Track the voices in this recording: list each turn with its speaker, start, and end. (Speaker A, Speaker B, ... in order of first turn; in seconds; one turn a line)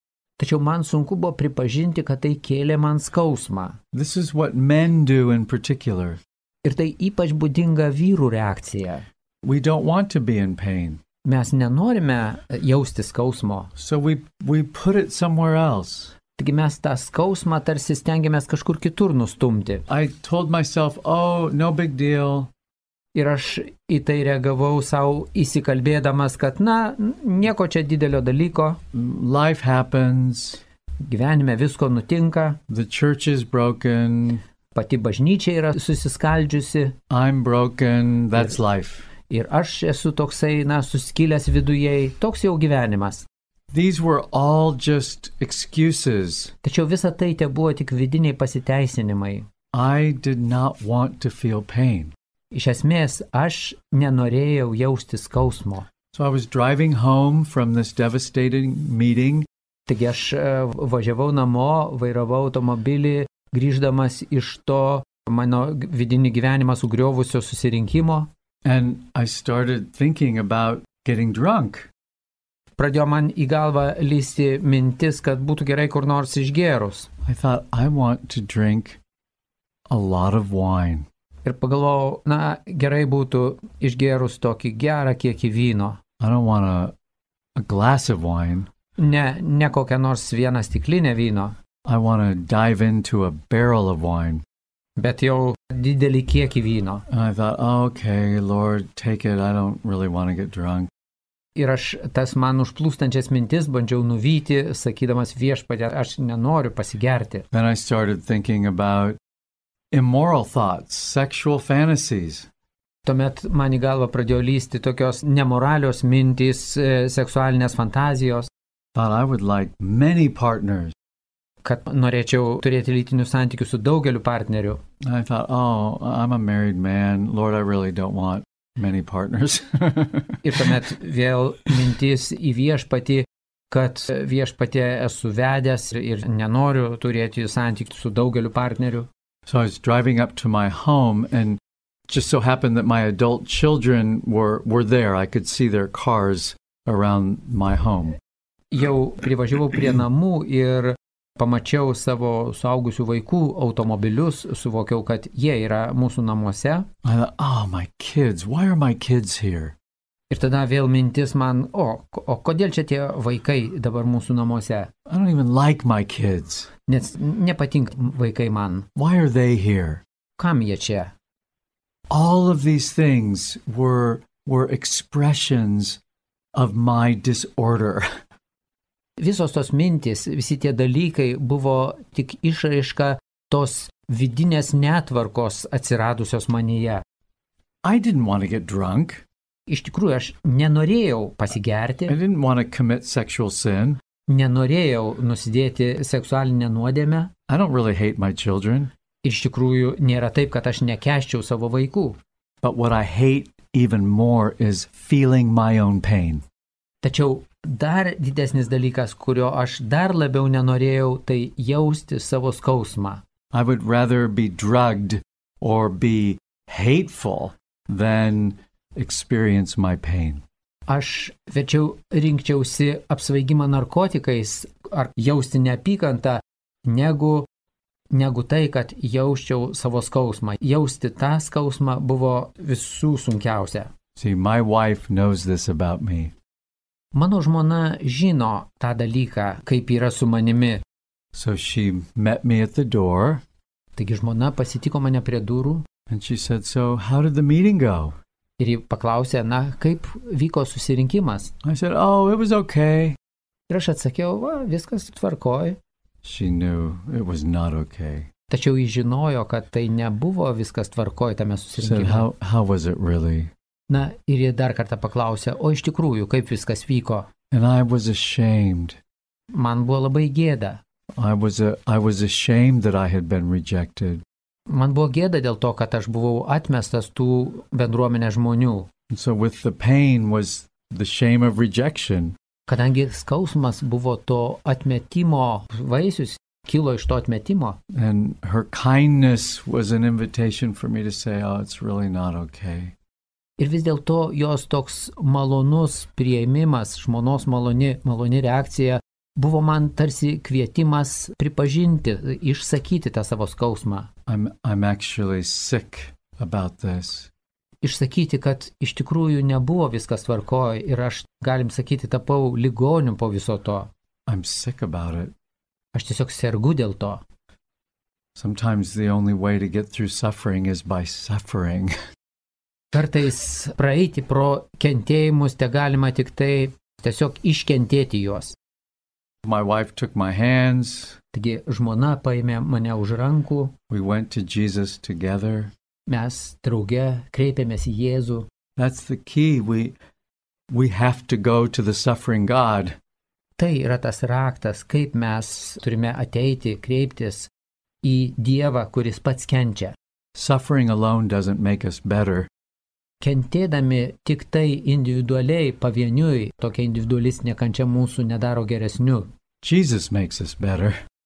Speaker A: 0.4-3.8
Speaker B: 3.9-6.2
Speaker A: 6.6-9.1
Speaker B: 9.4-11.0
Speaker A: 11.2-13.7
Speaker B: 13.8-16.1
Speaker A: 16.4-19.9
Speaker B: 19.9-22.5
Speaker A: 23.1-28.8
Speaker B: 28.9-30.6
Speaker A: 31.0-32.6
Speaker B: 32.7-34.4
Speaker A: 34.8-37.0
Speaker B: 37.1-39.1
Speaker A: 39.3-43.3
Speaker B: 43.7-46.5
Speaker A: 46.6-49.5
Speaker B: 49.7-52.1
Speaker A: 52.5-55.9
Speaker B: 56.1-59.5
Speaker A: 59.9-68.3
Speaker B: 68.6-71.9
Speaker A: 72.8-77.1
Speaker B: 77.2-79.0
Speaker B: 79.9-81.1
Speaker A: 81.5-86.0
Speaker B: 86.2-87.0
Speaker B: 87.6-88.7
Speaker A: 89.0-91.6
Speaker B: 91.8-94.4
Speaker A: 95.0-97.0
Speaker B: 97.1-100.9
Speaker A: 101.6-107.5
Speaker B: 107.5-109.2
Speaker B: 109.9-112.5
Speaker A: 113.0-118.5
Speaker B: 119.0-120.9
Speaker A: 121.6-124.8
Speaker B: 125.0-130.7
Speaker A: 130.4-139.1
Speaker B: 139.5-148.2
Speaker A: 148.7-156.9
Speaker B: 157.0-159.8
Speaker A: 160.3-164.9
Speaker B: 165.1-166.7
Speaker A: 166.9-168.9
Speaker B: 169.0-170.0
Speaker A: 170.4-171.1
Speaker B: 172.1-176.0
Speaker B: 176.5-178.1
Speaker A: 179.2-187.0
Speaker B: 187.8-189.2
Speaker A: 189.7-192.2
Speaker B: 192.1-194.0
Speaker A: 194.3-197.3
Speaker B: 197.5-198.9
Speaker A: 199.2-202.2
Speaker B: 202.6-206.4
Speaker A: 207.0-213.2
Speaker B: 213.5-220.4
Speaker A: 220.9-227.5
Speaker A: 228.1-233.9
Speaker B: 234.2-236.3
Speaker A: 237.1-240.8
Speaker B: 241.3-243.4
Speaker A: 244.0-245.8
Speaker B: 246.1-248.2
Speaker A: 248.6-251.5
Speaker B: 251.6-253.2
Speaker A: 253.7-255.8
Speaker B: 256.2-258.3
Speaker A: 258.5-262.3
Speaker B: 261.8-263.5
Speaker A: 263.9-267.3
Speaker B: 267.5-269.0
Speaker A: 269.5-270.8
Speaker B: 271.1-274.2
Speaker A: 274.7-278.9
Speaker B: 279.1-282.4
Speaker A: 282.7-287.8
Speaker B: 287.9-292.9
Speaker A: 293.6-304.1
Speaker B: 304.3-307.3
Speaker A: 307.8-313.9
Speaker B: 314.3-315.3
Speaker A: 315.9-317.2
Speaker B: 318.4-321.9
Speaker A: 322.9-328.6
Speaker B: 329.4-331.2
Speaker A: 331.3-333.7
Speaker B: 333.9-335.7
Speaker A: 336.1-338.5
Speaker B: 338.8-340.0
Speaker B: 340.7-343.0
Speaker A: 343.6-347.5
Speaker A: 348.0-350.0
Speaker B: 350.4-352.5
Speaker A: 353.2-359.3
Speaker B: 359.6-361.0